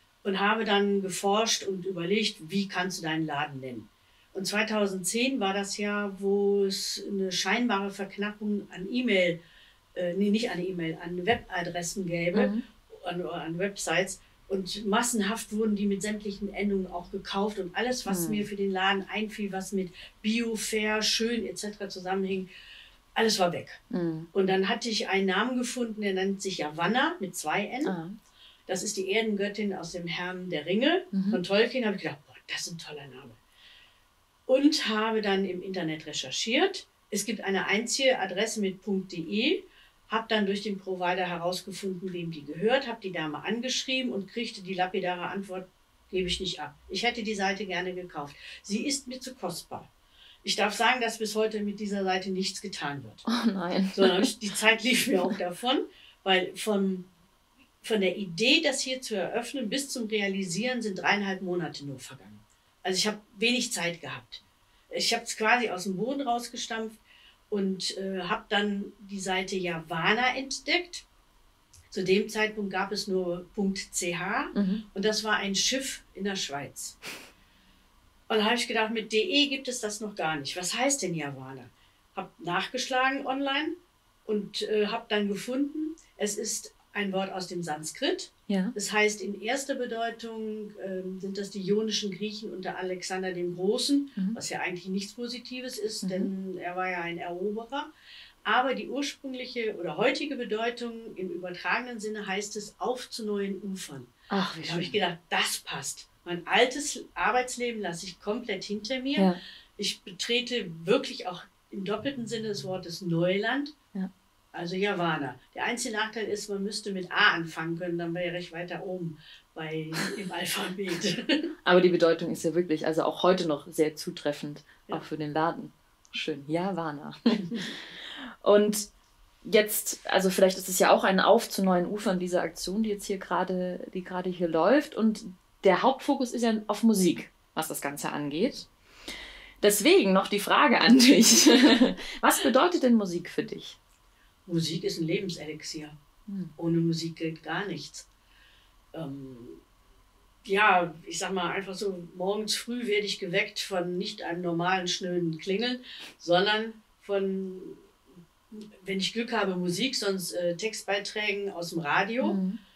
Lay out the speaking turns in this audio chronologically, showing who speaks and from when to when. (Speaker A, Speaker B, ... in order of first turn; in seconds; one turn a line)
Speaker A: 0.2-9.4
Speaker A: 9.9-22.5
Speaker B: 12.3-12.6
Speaker B: 18.1-18.4
Speaker A: 23.2-23.8
Speaker B: 23.9-24.3
Speaker A: 24.3-27.9
Speaker B: 27.9-28.2
Speaker A: 28.7-33.4
Speaker B: 31.1-31.4
Speaker A: 34.5-49.9
Speaker A: 50.4-53.3
Speaker B: 53.3-54.3
Speaker A: 53.9-57.1
Speaker A: 57.8-71.0
Speaker A: 71.9-77.0
Speaker B: 74.5-74.8
Speaker A: 78.3-97.9
Speaker B: 88.5-88.8
Speaker B: 96.0-96.3
Speaker A: 98.5-104.1
Speaker B: 104.3-105.0
Speaker A: 104.6-113.7
Speaker A: 114.5-121.5
Speaker B: 121.7-128.9
Speaker B: 129.4-138.7
Speaker B: 139.6-143.8
Speaker A: 144.5-146.0
Speaker B: 146.3-146.5
Speaker A: 146.6-148.1
Speaker A: 148.9-149.6
Speaker A: 150.4-157.8
Speaker A: 158.5-162.4
Speaker B: 162.2-162.6